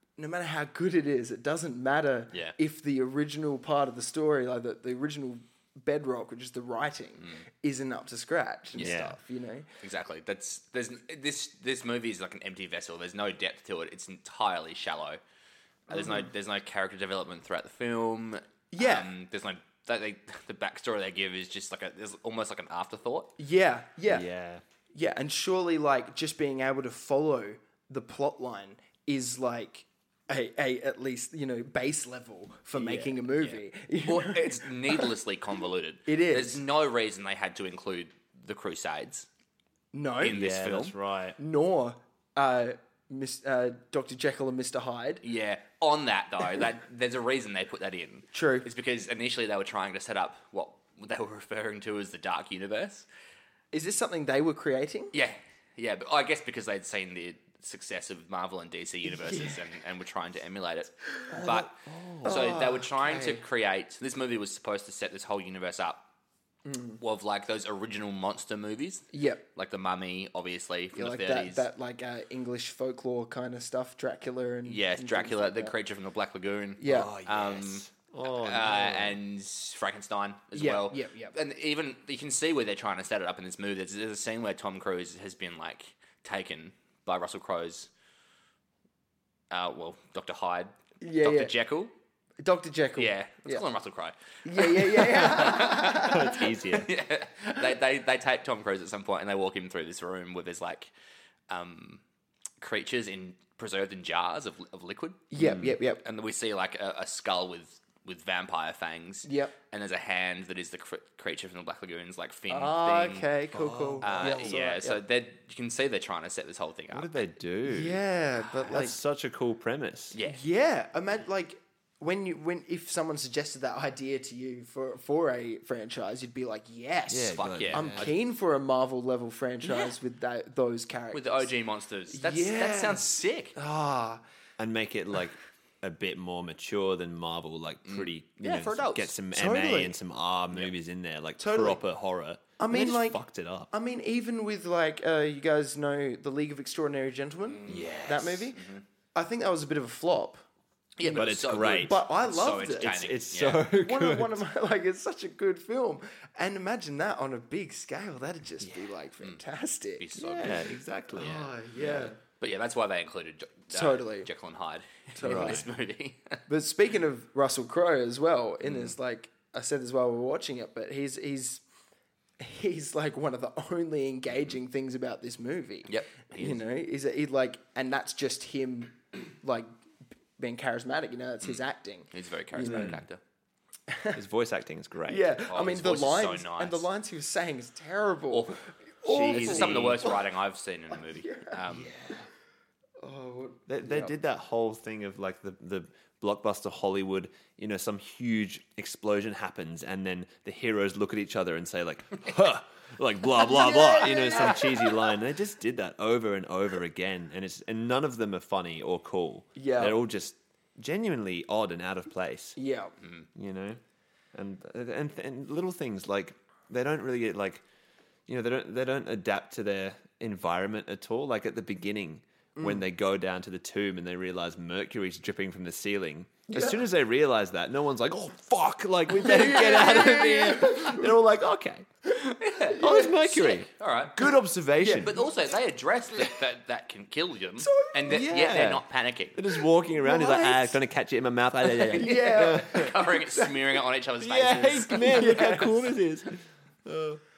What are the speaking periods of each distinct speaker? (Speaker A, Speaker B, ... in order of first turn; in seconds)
Speaker A: 0.2-9.7, 15.9-16.3, 18.7-19.1, 23.4-24.3, 24.9-35.1, 36.1-36.6, 39.9-40.4, 41.4-45.2, 48.3-48.7, 53.7-55.1, 59.1-59.6, 62.2-63.4, 66.6-67.0, 69.1-69.4, 70.9-75.7, 76.8-77.1, 80.5-81.3, 91.0-91.5, 92.4-93.6, 94.4-96.4, 105.3-106.0, 109.2-109.5, 112.5-115.0, 117.7-119.0, 120.2-131.5, 132.1-134.2, 139.3-139.9, 141.4-141.8, 142.6-148.6, 149.1-150.4, 151.0-153.0, 153.8-160.4, 161.1-162.2, 163.7-164.3, 165.1-165.7, 166.5-171.6, 172.4-179.7, 180.4-182.9, 183.9-184.2, 185.1-190.2, 191.1-191.6, 193.0-194.1, 203.3-205.1, 209.6-210.0, 212.6-212.9, 222.6-222.8, 226.5-226.8, 229.1-231.2, 232.1-233.1, 234.8-235.2, 237.6-238.2, 239.9-240.8, 241.9-243.6, 245.1-245.7
Speaker B: 7.2-7.4, 8.7-9.0, 9.8-15.2, 15.9-23.3, 33.4-39.3, 40.2-40.9, 45.2-53.1, 55.1-61.7, 62.2-66.1, 67.0-71.7, 74.7-87.9, 89.5-91.9, 93.0-100.9, 101.5-102.0, 102.6-105.3, 106.0-113.3, 114.0-117.2, 120.1-120.4, 127.3-128.1, 129.6-129.9, 131.1-133.6, 137.8-139.1, 147.5-148.8, 151.0-153.6, 160.0-166.4, 168.6-168.9, 175.9-176.6, 181.4-183.2, 185.5-186.9, 188.3-191.9, 232.3-234.2, 235.0-239.4, 241.7-245.7
Speaker C: 8.8-9.2, 24.1-24.6, 32.8-33.1, 40.3-41.4, 61.3-62.4, 76.8-79.2, 95.1-96.9, 105.3-105.8, 113.5-114.5, 116.9-118.0, 118.7-120.2, 127.1-128.1, 134.6-143.7, 147.7-148.5, 151.1-152.0, 152.8-154.4, 158.6-158.9, 160.2-162.1, 165.2-165.7, 182.7-183.0, 184.1-185.3, 189.3-190.1, 191.7-192.3, 193.7-212.6, 213.3-213.8, 214.3-217.6, 218.3-231.9, 232.7-235.2, 238.1-242.9, 244.2-247.2